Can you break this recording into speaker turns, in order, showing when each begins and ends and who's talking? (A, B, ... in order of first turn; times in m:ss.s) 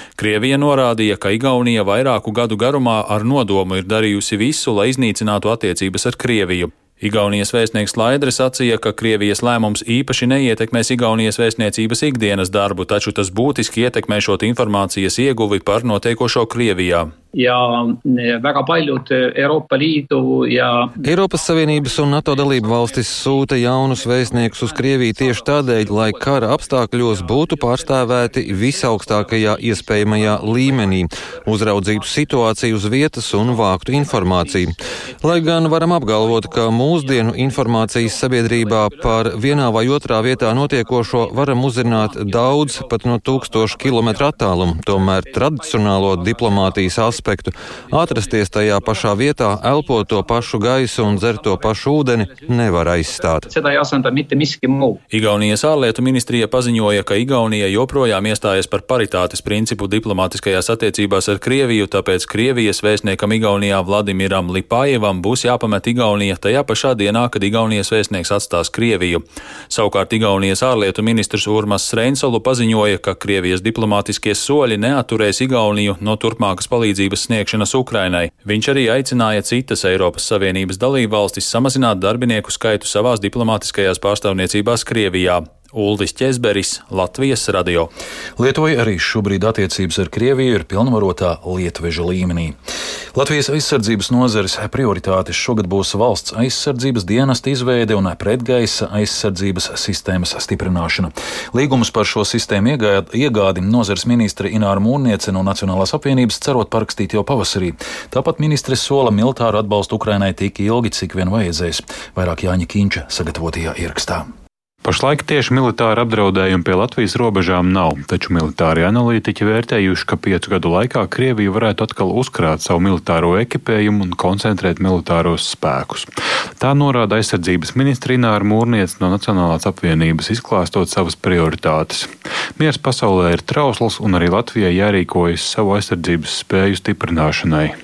0:00.2-0:17.1 A
0:17.3-0:21.0 B
0:21.0-0:53.5 C
0:22.5-0:23.3 B
0:24.1-0:30.6 B
0:31.8-0:32.2 B
0:36.2-0:36.5 B
0:37.7-0:39.2 B
0:40.5-0:40.9 B
0:41.5-0:43.1 B
0:43.6-0:45.4 B
0:46.1-0:46.6 B
0:51.1-0:51.6 B
0:53.1-0:55.0 B
0:55.1-1:27.9 A
1:28.4-1:32.5 D
1:33.1-1:54.3 D
1:54.8-2:06.1 E
2:06.6-2:17.7 E